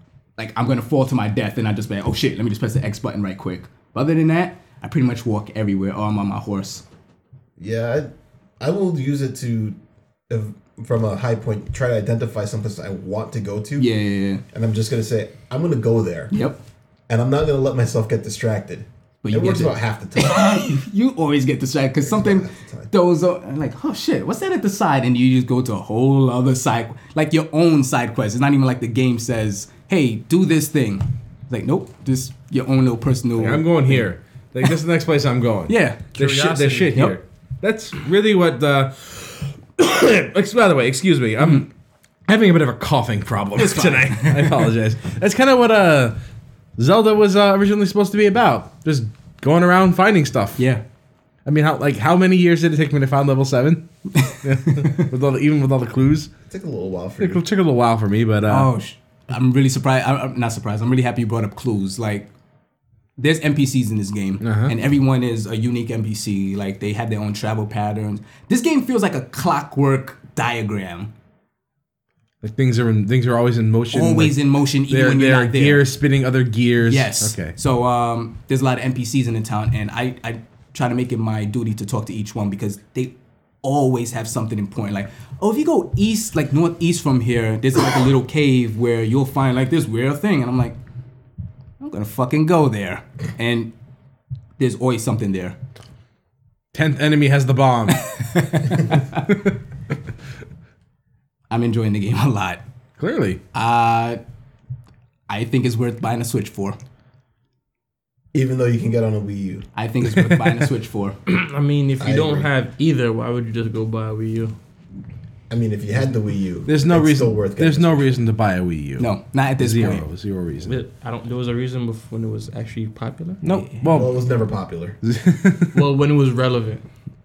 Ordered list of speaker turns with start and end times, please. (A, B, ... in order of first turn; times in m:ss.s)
0:00.4-0:06.8 A
0:07.6-0:09.8 B
0:10.3-0:13.9 B
0:13.8-0:14.4 A
0:14.5-0:16.3 B
0:16.3-0:16.6 A
0:17.1-0:20.6 B
0:19.2-0:34.1 A
0:22.0-0:22.9 B
0:33.4-0:41.7 C
0:35.7-0:36.1 A
0:36.1-0:37.0 D
0:42.2-0:46.2 C
0:43.6-0:44.7 A
0:46.8-0:50.6 C
0:50.6-0:50.8 A
0:51.4-0:53.8 C
0:54.1-0:55.1 A
0:54.4-0:56.3 C
0:56.5-0:57.4 B
0:57.2-0:58.7 C
0:58.5-1:02.3 A
1:03.2-1:11.1 A
1:04.4-1:04.7 C
1:12.4-1:14.4 C
1:13.9-1:15.8 A
1:14.9-1:17.5 C
1:16.8-1:30.8 A
1:31.8-1:33.7 A
1:34.6-1:35.6 A
1:36.7-1:38.0 C
1:38.0-1:39.3 A
1:41.5-1:42.6 A
1:43.0-1:43.4 C
1:43.5-1:44.2 A
1:45.3-1:46.8 A
1:48.3-1:49.7 B
1:49.7-1:51.2 A
1:50.1-1:50.5 C
1:51.3-1:54.5 D
1:52.0-1:52.5 B
1:55.5-1:58.1 B
1:56.6-2:00.8 C
1:59.0-2:00.0 A
2:00.6-2:03.6 D
2:03.4-2:04.1 C
2:03.9-2:05.0 B
2:05.0-2:05.8 C
2:05.7-2:06.8 D